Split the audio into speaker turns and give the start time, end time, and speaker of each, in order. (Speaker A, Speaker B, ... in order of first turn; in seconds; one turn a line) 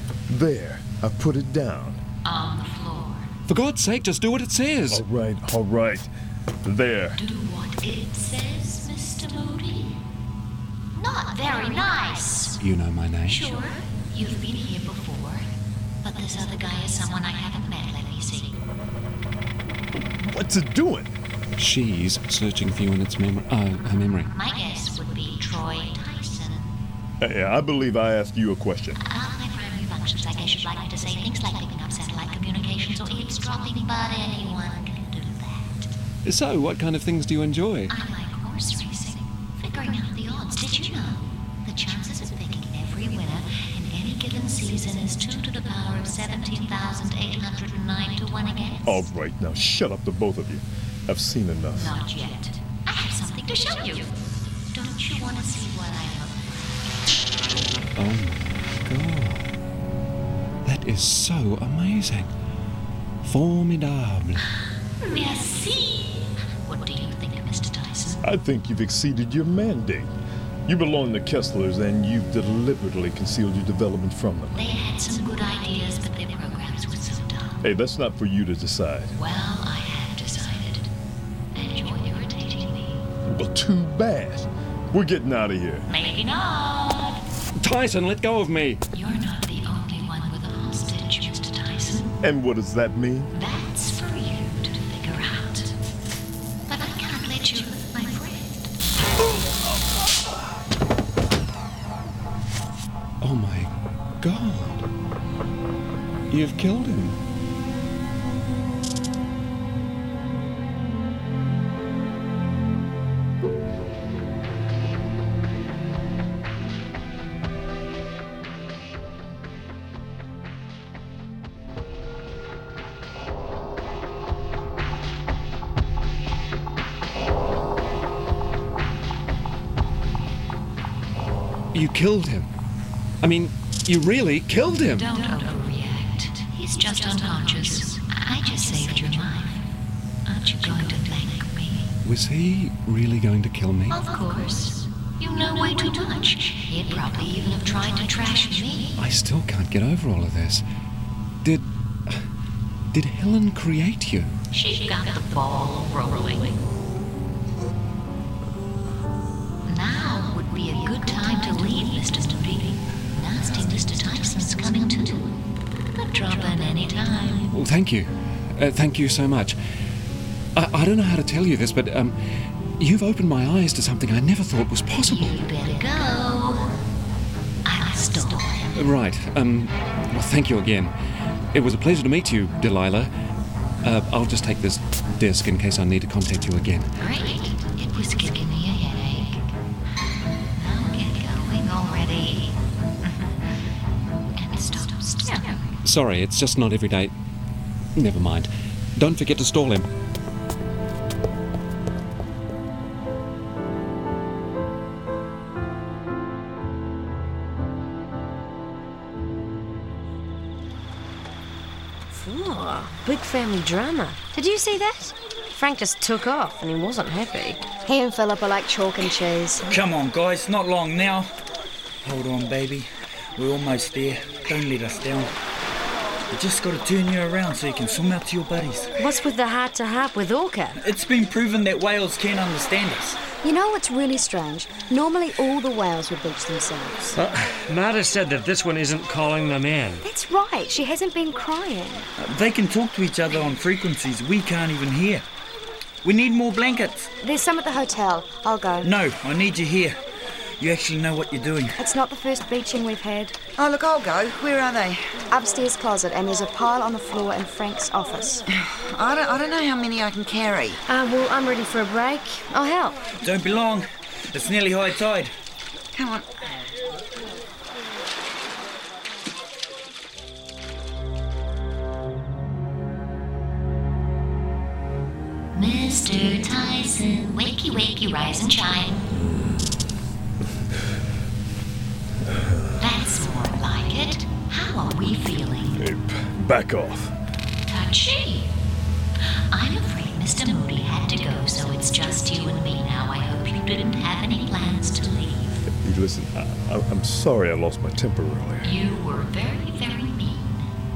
Speaker A: 0.3-2.0
Speaker B: 2.2-3.3
Speaker C: 3.5-5.0
Speaker A: 4.9-6.1
Speaker A: 6.6-7.2
Speaker B: 7.2-10.0
Speaker B: 11.0-12.6
Speaker C: 12.6-13.6
Speaker B: 13.2-15.5
Speaker B: 16.0-18.6
Speaker A: 20.2-21.2
Speaker C: 21.6-24.3
Speaker B: 24.3-26.8
Speaker A: 27.2-29.0
Speaker B: 29.1-35.9
Speaker C: 36.2-37.9
Speaker B: 37.9-49.0
Speaker A: 48.9-51.9
Speaker B: 51.8-54.1
Speaker B: 54.7-56.8
Speaker C: 58.0-59.5
Speaker C: 60.6-62.3
Speaker C: 63.2-64.4
Speaker B: 65.0-68.2
Speaker A: 68.2-70.1
Speaker A: 70.7-74.6
Speaker B: 74.6-77.6
Speaker A: 77.6-79.2
Speaker B: 79.2-80.9
Speaker B: 81.5-83.0
Speaker A: 83.3-85.9
Speaker B: 85.9-87.2
Speaker C: 87.6-88.8
Speaker B: 88.9-92.2
Speaker A: 92.2-93.3
Speaker B: 93.3-95.7
Speaker B: 96.7-98.7
Speaker C: 103.2-104.9
Speaker C: 106.3-107.2
Speaker C: 131.7-132.5
Speaker C: 133.2-135.1
Speaker B: 134.9-139.7
Speaker B: 140.3-142.0
Speaker C: 142.0-144.0
Speaker B: 143.9-149.0
Speaker C: 149.0-150.7
Speaker C: 151.4-152.2
Speaker C: 152.9-154.4
Speaker B: 154.5-156.6
Speaker B: 159.7-165.4
Speaker B: 165.9-167.5
Speaker C: 167.5-169.6
Speaker C: 170.6-175.4
Speaker B: 174.9-176.8
Speaker B: 177.7-178.7
Speaker C: 178.7-180.9
Speaker C: 181.5-183.1
Speaker C: 183.8-186.9
Speaker B: 187.0-189.5
Speaker B: 190.6-193.4
Speaker B: 194.4-195.8
Speaker C: 195.8-197.1
Speaker C: 197.9-199.9
Speaker D: 212.1-217.7
Speaker E: 217.8-219.8
Speaker F: 219.7-221.3
Speaker F: 222.0-225.3
Speaker F: 226.3-228.9
Speaker D: 229.0-230.8
Speaker F: 230.8-233.2
Speaker E: 233.4-237.2
Speaker G: 237.2-240.0
Speaker E: 240.0-242.1
Speaker F: 242.2-245.2
Speaker F: 246.0-247.1
Speaker E: 247.2-248.9
Speaker F: 248.8-250.0
Speaker F: 250.6-251.8
Speaker E: 251.8-253.4
Speaker H: 253.6-255.2
Speaker E: 255.3-258.4
Speaker H: 258.5-260.8
Speaker D: 260.9-263.0
Speaker F: 263.2-265.3
Speaker H: 265.9-266.5
Speaker B: 275.5-279.1
Speaker A: 279.1-279.7
Speaker A: 282.3-282.7
Speaker B: 282.8-285.9
Speaker A: 285.8-287.1
Speaker B: 287.7-288.5
Speaker B: 289.5-295.6
Speaker A: 295.7-298.7
Speaker B: 298.6-300.7